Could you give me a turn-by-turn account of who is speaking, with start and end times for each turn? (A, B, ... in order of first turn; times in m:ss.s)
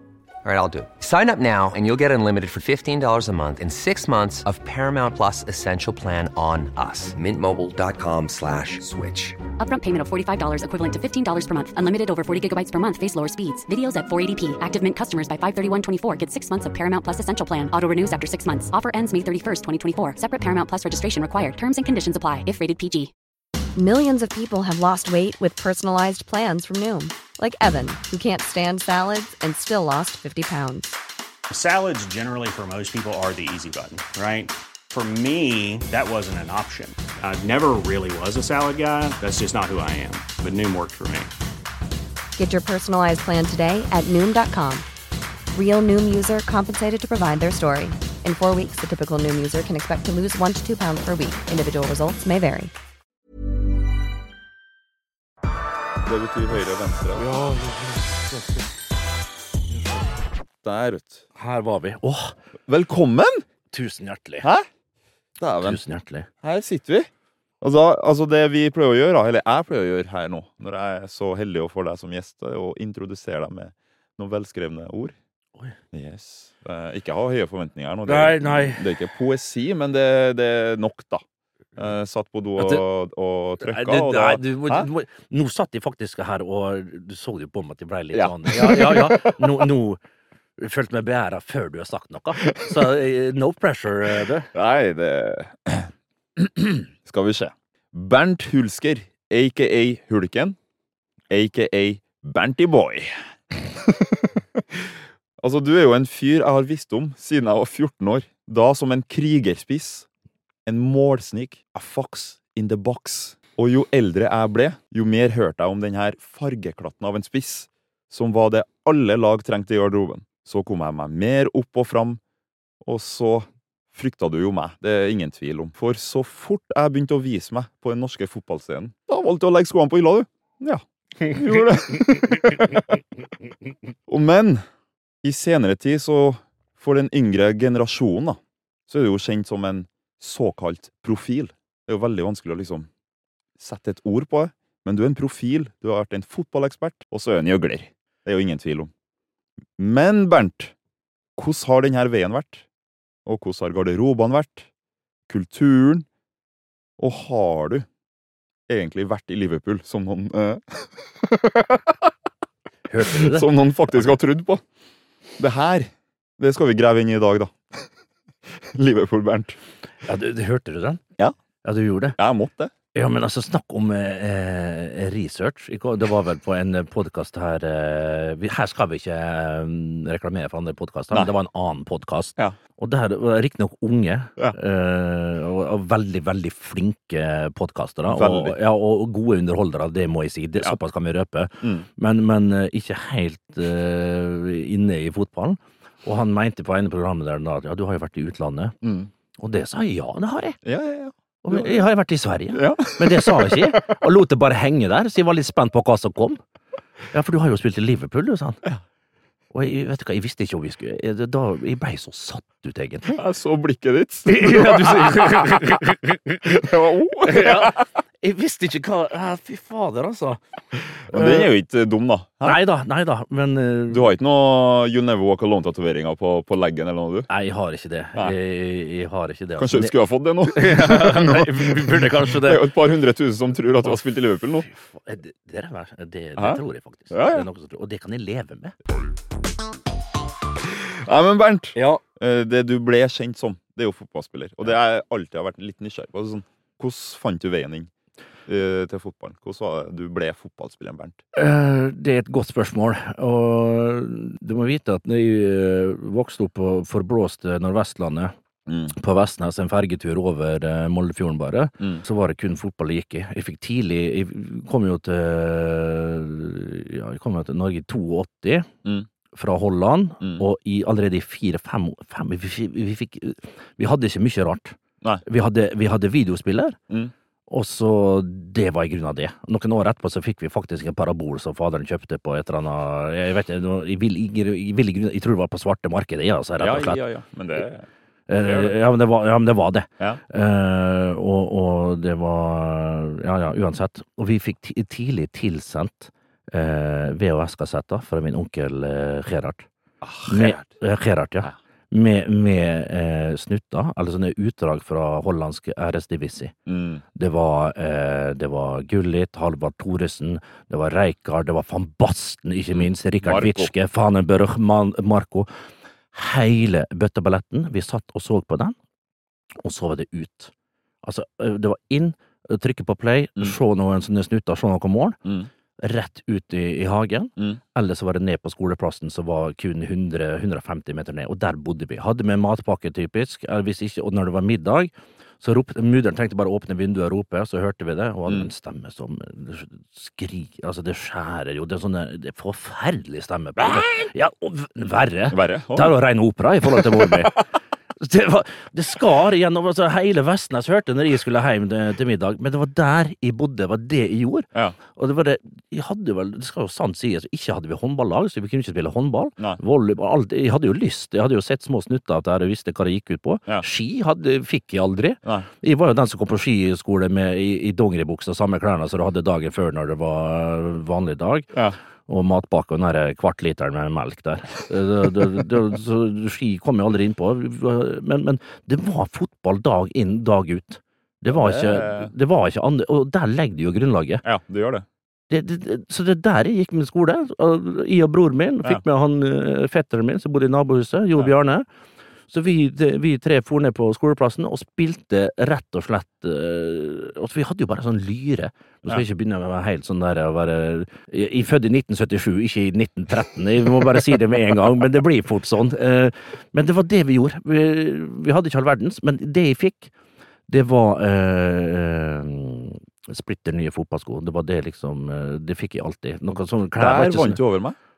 0:00.4-0:09.4 A
0:09.6-0:23.1 B
0:23.8-0:31.0 C
0:31.5-0:41.3 D
0:42.4-0:44.9 C
0:45.5-0:52.7 C
0:56.0-0:57.2 E
0:57.2-0:58.7 F
0:59.7-1:00.2 F
1:00.6-1:01.2 E
1:01.4-1:02.3 F
1:02.7-1:03.4 E
1:03.7-1:04.5 F
1:05.4-1:05.8 E
1:05.6-1:06.3 F
1:06.4-1:07.1 E
1:07.6-1:15.1 E
1:15.9-1:21.2 E
1:18.0-1:18.8 F
1:21.8-1:24.9 E
1:22.6-1:22.8 F
1:23.6-1:30.0 F
1:28.1-1:29.7 E
1:30.6-1:34.5 F
1:34.5-1:40.6 E
1:41.3-1:50.1 E
1:50.6-2:02.2 E
2:02.8-2:13.0 E
2:14.1-2:14.6 E
2:15.2-2:22.9 E
2:23.6-2:28.9 E
2:29.8-2:30.7 E
2:31.4-2:32.6 E
2:33.2-2:34.7 E
2:35.3-2:36.1 E
2:37.0-2:37.8 E
2:38.7-2:42.1 E
2:42.9-2:43.5 F
2:43.0-2:44.6 E
2:45.4-2:47.9 E
2:48.6-2:49.6 E
2:50.0-2:51.0 F
2:51.6-2:52.2 F
2:52.2-2:52.7 E
2:52.9-3:18.8 F
3:08.1-3:08.5 E
3:11.6-3:11.8 E
3:18.8-3:19.1 E
3:19.4-3:20.6 F
3:20.6-3:21.8 E
3:21.4-3:26.4 F
3:22.5-3:24.0 E
3:27.1-3:28.6 F
3:29.5-3:33.2 F
3:33.1-3:37.8 E
3:34.2-3:36.0 F
3:37.2-3:40.4 F
3:41.1-3:42.6 E
3:41.1-3:41.5 F
3:42.4-3:44.1 F
3:43.9-3:47.3 E
3:47.3-3:52.7 F
3:49.6-3:54.7 E
3:54.6-3:58.7 F
3:56.4-3:57.5 E
4:00.6-4:07.9 E
4:01.7-4:02.0 F
4:08.5-4:11.2 E
4:11.3-4:18.3 F
4:18.7-4:18.9 E
4:18.9-4:28.7 F
4:29.3-4:36.8 F
4:37.5-4:47.0 F
4:46.6-4:47.9 E
4:48.3-4:59.7 F
4:48.4-4:48.8 E
5:00.0-5:00.6 E
5:00.3-5:06.5 F
5:06.6-5:07.0 E
5:07.1-5:15.5 F
5:12.7-5:13.7 E
5:16.1-5:18.7 F
5:19.6-5:20.5 F
5:21.0-5:25.2 F
5:25.8-5:47.4 F
5:45.3-5:46.0 E
5:48.0-6:11.5 F
6:12.1-6:24.2 F
6:21.3-6:22.1 E
6:24.2-6:24.8 E
6:25.3-6:31.6 F
6:32.3-6:49.9 F
6:50.5-6:57.4 F
6:56.8-6:57.8 E